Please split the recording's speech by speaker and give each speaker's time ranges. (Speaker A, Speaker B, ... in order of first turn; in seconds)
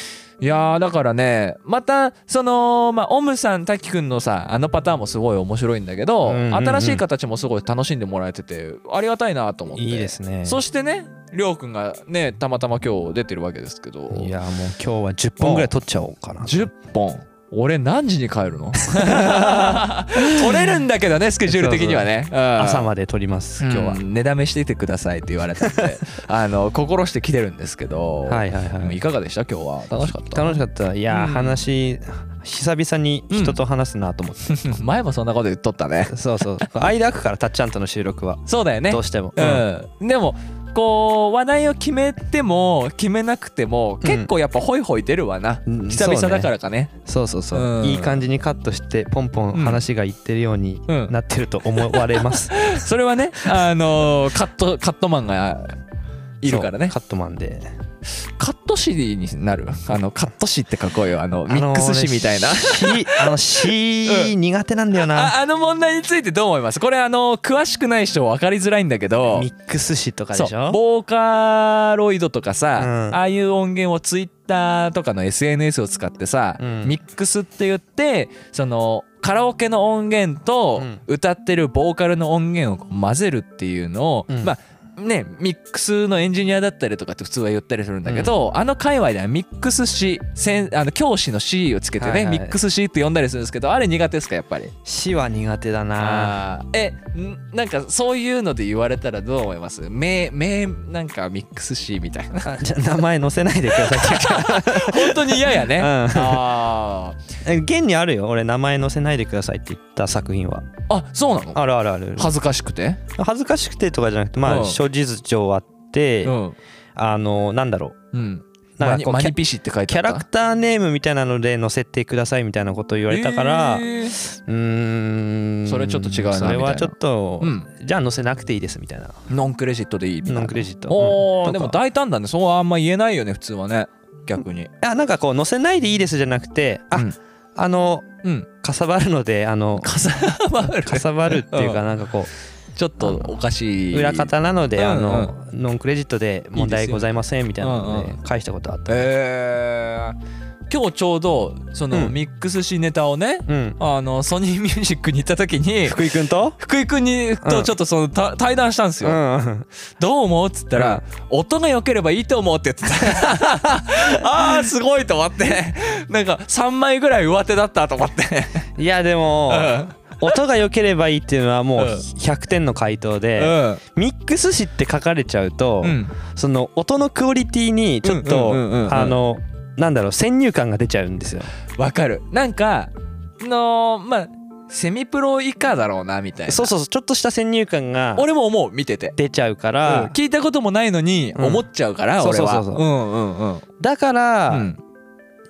Speaker A: 0.4-14.3, 15.4-15.7, 16.4-22.9, 23.6-31.6, 33.3-33.6, 34.5-36.1, 38.5-46.9, 47.5-48.2, 49.5-49.8, 50.9-51.2, 52.0-55.8, 56.4-57.0, 58.4-63.4, 64.1-64.3, 65.1-69.5, 70.3-94.7, 96.0-102.5, 103.9-107.2, 110.9-111.6, 112.2-113.0, 114.4-114.8, 116.2-116.6, 118.1-120.2, 123.1-124.2, 125.7-127.7, 129.3-134.7, 139.8-141.8, 142.8-145.3, 146.6-147.1, 147.6-148.2, 148.9-150.2, 150.7-156.1, 156.6-159.2, 160.0-168.7, 169.5-170.3, 171.8-172.1, 173.4-173.8, 175.8-176.2, 178.0-179.2, 181.8-186.7, 188.2-189.2, 189.8-193.7, 194.5-194.8
Speaker B: 6.2-7.0, 9.7-10.6, 14.1-16.7, 18.9-20.7, 21.5-24.0, 28.3-29.0, 30.0-34.7, 36.1-39.7, 44.0-44.3, 45.7-52.8, 56.4-57.7, 61.5-65.3, 69.3-70.8, 72.8-73.2, 76.6-76.9, 88.0-88.3, 92.0-92.6, 94.8-96.4, 102.4-106.6, 107.4-110.7, 111.5-112.3, 113.2-116.4, 117.0-118.0, 118.8-129.2, 130.3-131.8, 134.8-139.9, 140.6-142.3, 143.0-143.4, 143.9-149.1, 153.5-153.8, 155.8-156.6, 157.4-157.7, 159.0-159.7, 160.8-161.0, 168.8-181.5, 186.5-188.3, 189.2-190.2, 191.3-191.7, 192.2-192.9, 193.8-194.7